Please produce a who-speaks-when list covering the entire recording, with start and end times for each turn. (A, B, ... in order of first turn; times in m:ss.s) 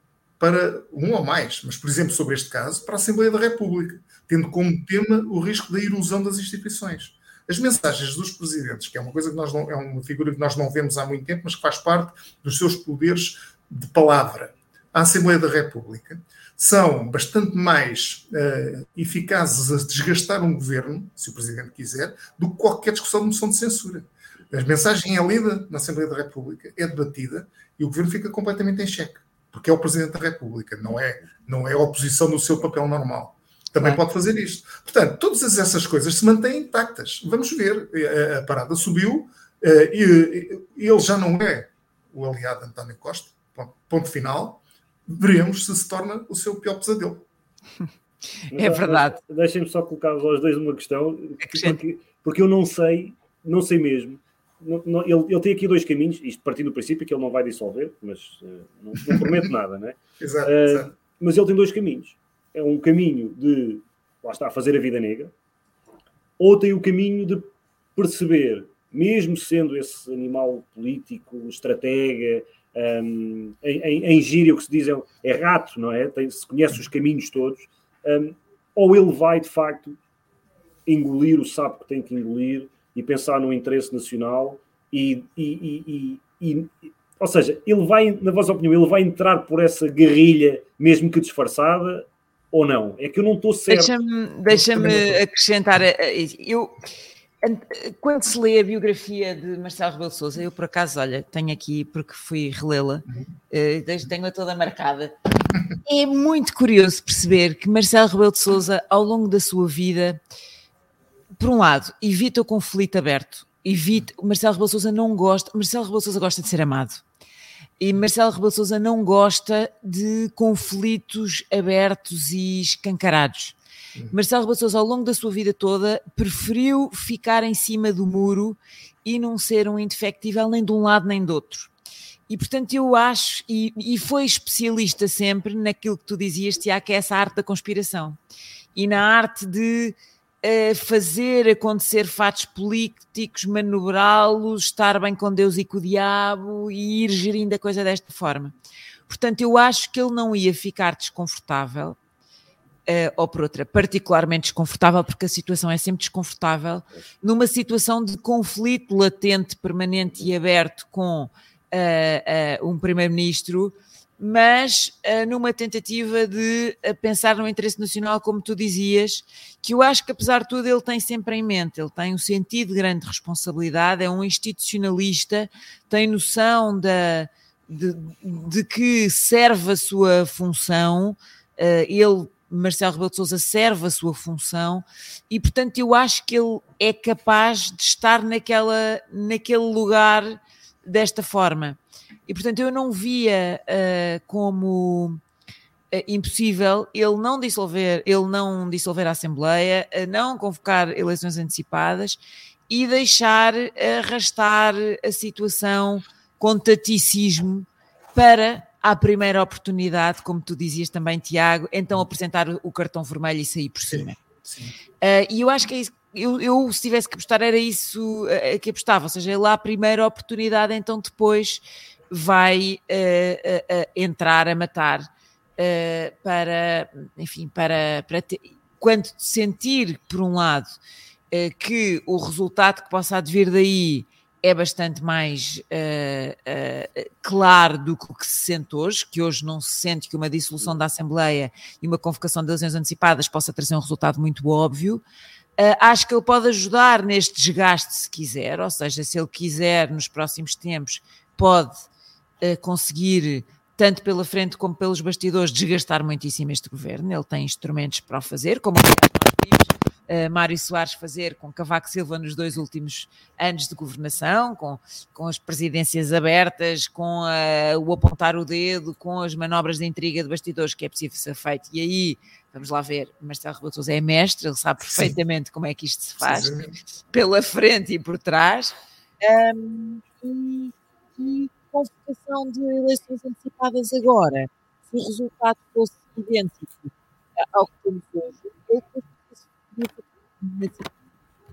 0:00.4-0:47.3 A
0:48.5-0:49.2 B
0:48.5-1:05.3 C
0:51.4-0:51.8 B
1:00.2-1:00.9 A
1:06.4-1:20.0 C
1:20.9-1:33.9 C
1:33.7-1:36.8 B
1:34.8-1:35.2 A
1:37.4-1:45.1 B
1:45.8-1:50.2 B
1:51.4-1:57.0 B
1:57.8-2:03.6 B
2:04.1-2:11.7 B
2:12.3-2:18.2 B
2:18.8-2:28.6 B
2:29.1-2:32.0 B
2:32.9-3:15.2 B
3:15.9-3:34.2 B
3:33.9-3:34.8 A
3:35.0-3:50.8 B
3:51.3-4:05.0 B
4:05.6-4:11.9 B
4:12.4-4:36.5 B
4:34.8-4:35.1 A
4:36.2-4:36.8 A
4:37.1-4:50.9 B